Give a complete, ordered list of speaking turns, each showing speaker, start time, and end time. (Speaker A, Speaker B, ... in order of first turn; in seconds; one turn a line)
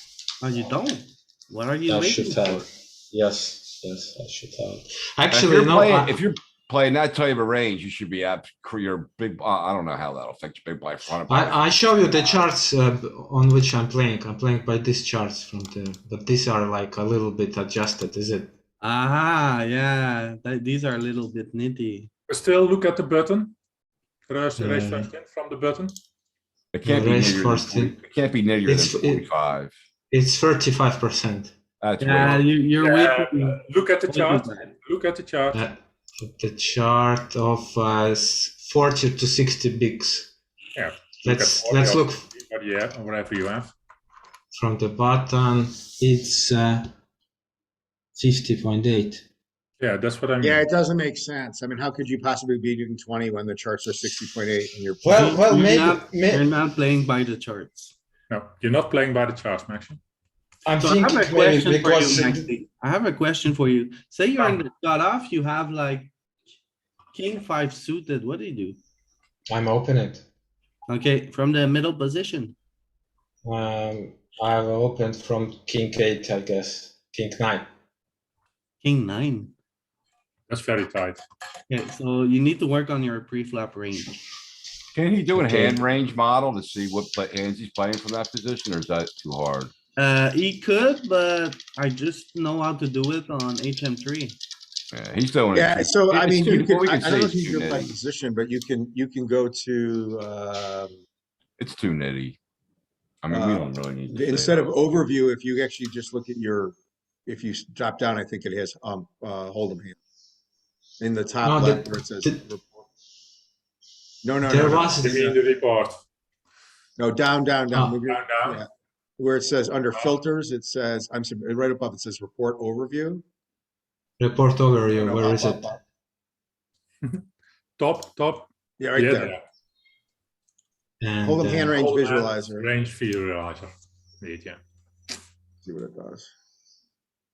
Speaker A: 0.4-2.6
Speaker B: 1.9-6.2
Speaker C: 5.3-12.4
Speaker B: 11.3-18.5
Speaker A: 18.8-22.1
Speaker D: 22.3-23.5
Speaker D: 24.3-26.0
Speaker B: 24.6-25.1
Speaker C: 26.7-29.7
Speaker B: 26.8-27.9
Speaker B: 28.6-29.2
Speaker B: 30.1-31.5
Speaker C: 31.8-32.4
Speaker A: 32.0-34.7
Speaker D: 32.8-35.6
Speaker B: 35.5-40.3
Speaker D: 40.8-43.7
Speaker B: 41.2-42.3
Speaker B: 44.5-46.9
Speaker B: 48.1-49.2
Speaker D: 49.8-50.6
Speaker E: 50.4-55.4
Speaker B: 55.0-56.5
Speaker A: 55.1-57.9
Speaker D: 58.3-60.0
Speaker B: 60.6-62.5
Speaker A: 60.8-66.1
Speaker A: 67.1-68.8
Speaker B: 69.5-70.2
Speaker A: 70.9-72.5
Speaker B: 73.4-77.7
Speaker A: 78.8-79.5
Speaker D: 80.5-81.2
Speaker A: 81.7-84.2
Speaker C: 84.9-89.7
Speaker A: 85.3-85.8
Speaker A: 90.0-94.4
Speaker C: 94.9-97.9
Speaker E: 95.5-101.0
Speaker C: 101.6-102.4
Speaker C: 103.2-104.7
Speaker E: 103.3-106.7
Speaker E: 107.2-110.0
Speaker E: 111.0-112.8
Speaker B: 111.4-112.4
Speaker E: 114.2-115.3
Speaker B: 114.4-115.3
Speaker D: 115.0-116.0
Speaker E: 117.0-123.2
Speaker B: 117.7-118.0
Speaker D: 118.1-118.6
Speaker B: 124.2-125.8
Speaker E: 124.9-125.8
Speaker D: 127.8-129.4
Speaker E: 128.8-129.3
Speaker B: 131.0-131.8
Speaker E: 131.2-132.7
Speaker D: 131.7-134.6
Speaker E: 135.6-136.3